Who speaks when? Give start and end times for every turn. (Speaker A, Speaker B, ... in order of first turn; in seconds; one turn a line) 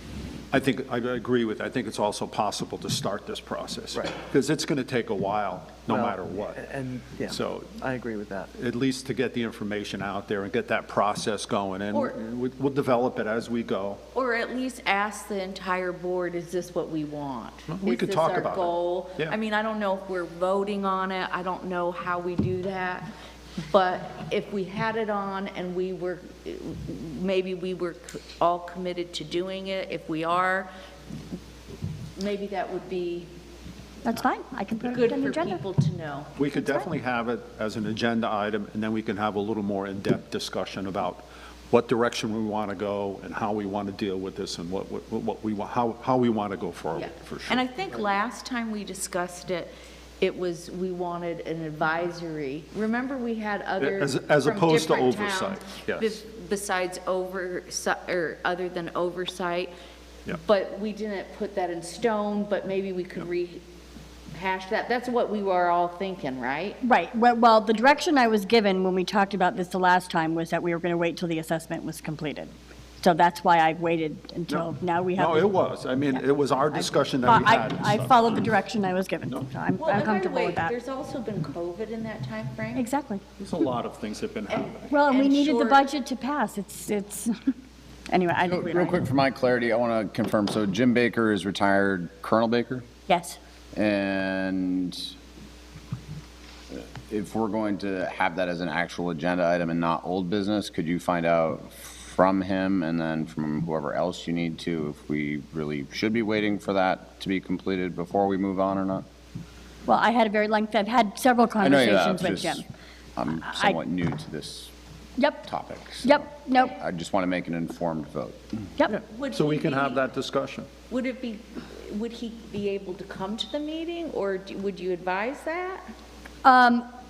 Speaker A: 0.5-6.6
Speaker B: 5.9-8.5
Speaker A: 7.3-7.7
Speaker A: 8.5-14.0
Speaker C: 14.1-23.1
Speaker A: 17.7-19.4
Speaker C: 23.7-30.7
Speaker C: 32.2-33.3
Speaker D: 34.0-35.6
Speaker C: 34.9-36.3
Speaker A: 36.4-47.6
Speaker D: 36.5-36.9
Speaker C: 46.9-59.7
Speaker A: 53.8-56.2
Speaker C: 60.3-63.6
Speaker C: 64.3-66.8
Speaker D: 66.8-80.7
Speaker A: 74.5-78.5
Speaker C: 79.8-82.8
Speaker D: 82.7-83.2
Speaker A: 83.4-84.9
Speaker C: 84.5-85.8
Speaker D: 84.9-87.3
Speaker D: 88.1-89.0
Speaker E: 88.4-92.9
Speaker D: 93.1-93.4
Speaker E: 93.7-95.1
Speaker E: 96.7-109.0
Speaker D: 109.8-112.6
Speaker E: 111.6-112.6
Speaker E: 113.2-114.7
Speaker D: 113.4-113.8
Speaker D: 115.2-115.5
Speaker E: 115.4-118.6
Speaker D: 116.0-116.8
Speaker A: 118.9-120.7
Speaker C: 119.1-120.1
Speaker C: 120.9-125.9
Speaker D: 126.4-126.8